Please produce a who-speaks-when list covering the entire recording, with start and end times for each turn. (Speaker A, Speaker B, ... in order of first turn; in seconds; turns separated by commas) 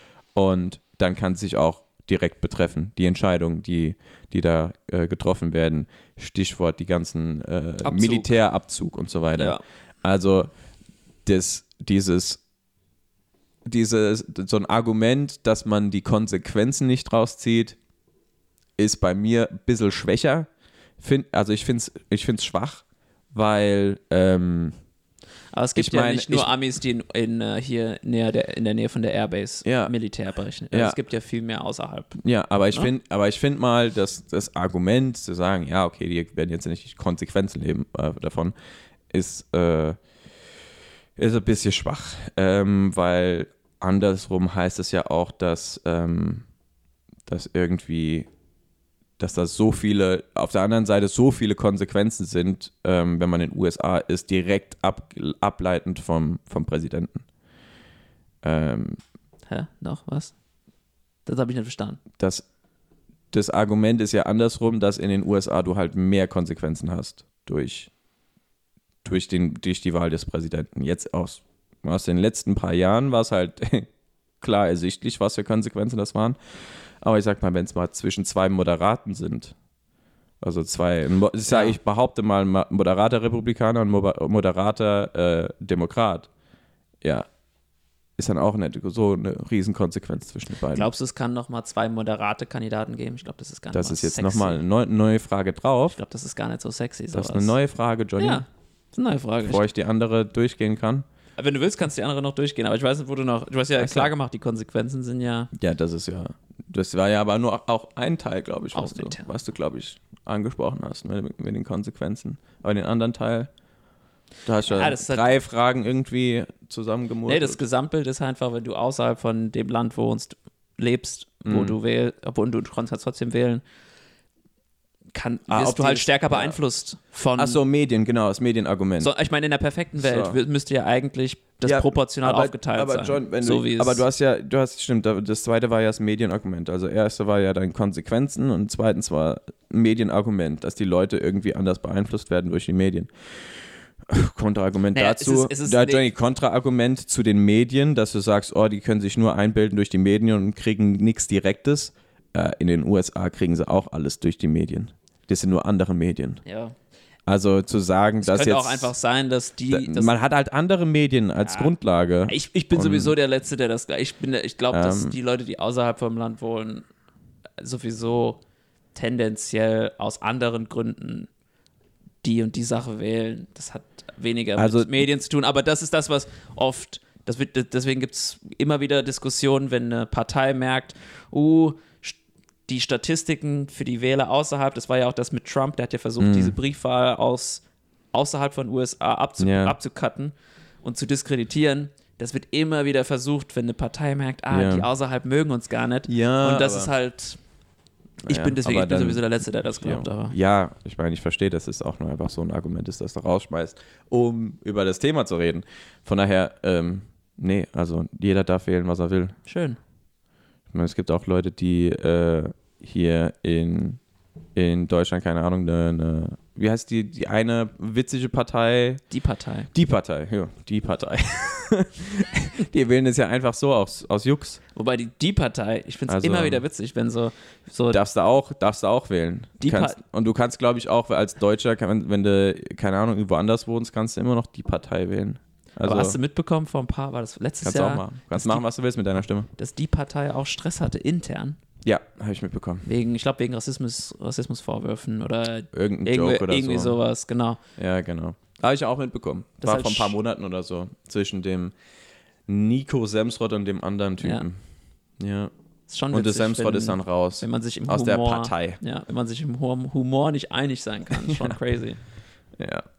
Speaker A: 0.3-10.5, Speaker B: 7.8-8.3, Speaker B: 9.4-9.6, Speaker A: 11.2-12.4, Speaker A: 13.6-17.8, Speaker A: 18.8-20.5, Speaker A: 21.0-24.8, Speaker B: 25.5-32.2, Speaker A: 25.7-26.5, Speaker A: 29.6-29.9, Speaker A: 30.7-31.0, Speaker A: 32.2-38.5, Speaker A: 39.1-40.0, Speaker A: 41.2-46.5, Speaker A: 47.3-48.3, Speaker A: 49.2-57.2, Speaker A: 58.4-59.0, Speaker B: 59.5-60.3, Speaker B: 61.2-62.0, Speaker A: 62.2-62.5, Speaker A: 63.3-67.9, Speaker A: 69.0-73.9, Speaker A: 74.4-76.4, Speaker A: 77.0-79.5, Speaker A: 80.4-86.3, Speaker B: 81.5-81.8, Speaker A: 87.0-87.3, Speaker A: 88.2-90.9, Speaker B: 90.7-94.6, Speaker A: 93.7-96.0, Speaker B: 95.9-97.5, Speaker A: 97.1-98.4, Speaker B: 98.2-99.6, Speaker A: 99.4-101.1, Speaker B: 101.4-105.5, Speaker A: 103.8-104.1, Speaker A: 105.5-113.5, Speaker B: 108.7-109.3, Speaker A: 114.5-117.6, Speaker B: 114.6-115.3, Speaker B: 117.3-123.6, Speaker A: 121.4-121.8, Speaker B: 125.1-127.6, Speaker A: 125.5-126.6, Speaker A: 127.4-129.1, Speaker B: 129.0-134.1, Speaker A: 130.0-130.4, Speaker A: 131.6-156.4, Speaker B: 144.9-146.1, Speaker B: 156.4-156.7, Speaker A: 157.3-158.9, Speaker B: 158.2-160.1, Speaker A: 159.7-163.1, Speaker B: 161.4-161.7, Speaker B: 162.3-166.9, Speaker A: 164.7-165.2, Speaker B: 167.6-168.4, Speaker B: 168.9-171.3, Speaker B: 172.2-197.4, Speaker A: 174.6-175.0, Speaker A: 186.2-186.6, Speaker A: 189.4-189.8, Speaker A: 194.5-194.9, Speaker A: 196.1-196.9, Speaker A: 198.2-199.2, Speaker B: 198.2-200.3, Speaker A: 199.8-209.4, Speaker B: 209.4-209.8, Speaker A: 210.7-214.0, Speaker A: 214.6-219.0, Speaker B: 219.1-219.7, Speaker A: 219.7-224.6, Speaker B: 224.7-228.0, Speaker A: 226.1-226.6, Speaker A: 227.9-236.2, Speaker B: 229.6-230.0, Speaker B: 235.8-238.6, Speaker A: 237.6-239.5, Speaker B: 239.6-241.6, Speaker A: 241.8-242.8, Speaker B: 242.8-247.6, Speaker A: 245.7-247.0, Speaker A: 247.8-251.7, Speaker B: 249.6-250.2, Speaker A: 252.5-254.6, Speaker B: 254.2-254.4, Speaker A: 255.2-255.5, Speaker B: 255.9-262.0, Speaker A: 256.1-258.8, Speaker A: 261.2-261.6, Speaker A: 262.6-262.8